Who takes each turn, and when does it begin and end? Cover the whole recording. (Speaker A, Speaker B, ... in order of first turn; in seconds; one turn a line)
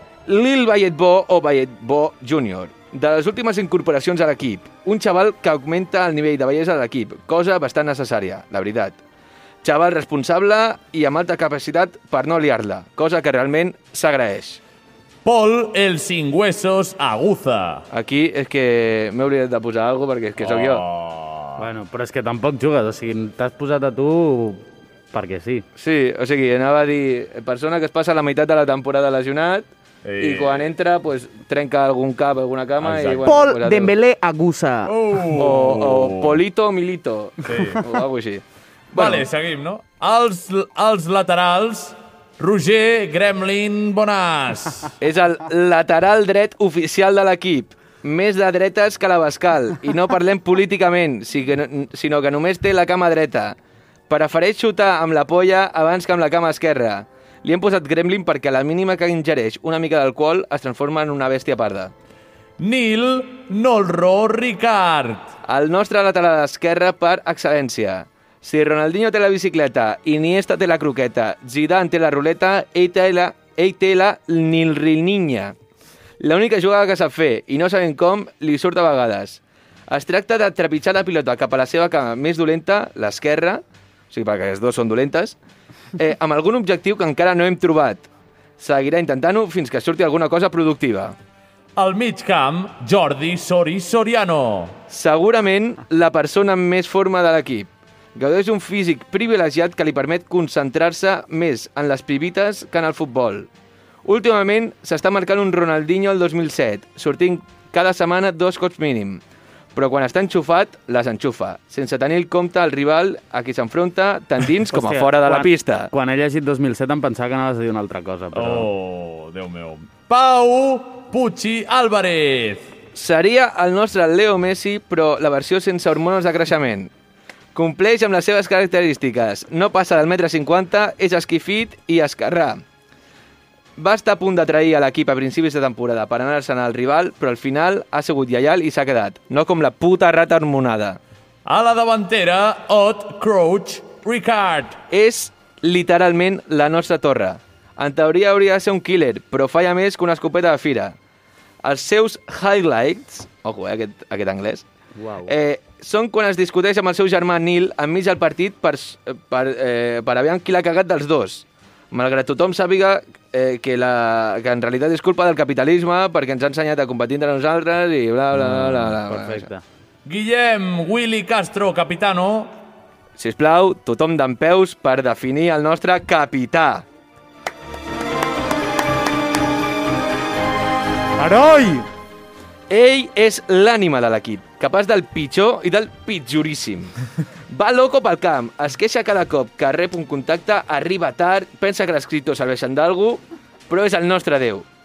Speaker A: 0.3-9.0
Speaker A: 9.6-14.6
Speaker B: 15.2-17.8
Speaker A: 17.9-20.8
Speaker B: 20.4-21.7
Speaker C: 21.6-25.6
Speaker A: 25.8-29.7
Speaker B: 30.0-30.7
Speaker A: 30.2-33.9
Speaker B: 32.8-33.4
Speaker C: 33.2-35.0
Speaker B: 34.9-36.4
Speaker A: 35.4-39.2
Speaker B: 37.5-37.8
Speaker B: 39.0-44.9
Speaker A: 45.0-53.6
Speaker A: 54.1-61.9
Speaker B: 62.6-65.3
Speaker A: 65.5-75.5
Speaker A: 76.2-85.4
Speaker A: 86.0-88.1
Speaker A: 88.6-91.2
Speaker B: 91.8-94.8
Speaker A: 94.9-103.5
Speaker A: 104.0-109.2
Speaker A: 109.8-115.9
Speaker C: 114.7-118.7
Speaker B: 118.3-122.7
Speaker A: 123.0-126.9
Speaker A: 127.5-132.6
Speaker A: 133.8-141.0
Speaker B: 141.5-144.8
Speaker A: 144.9-151.0
Speaker A: 151.6-154.7
Speaker C: 155.0-155.3
Speaker A: 155.3-169.5
Speaker B: 168.4-168.9
Speaker C: 169.1-169.6
Speaker B: 170.1-172.5
Speaker A: 173.2-176.8
Speaker C: 181.2-181.9
Speaker A: 182.7-187.0
Speaker A: 187.5-194.7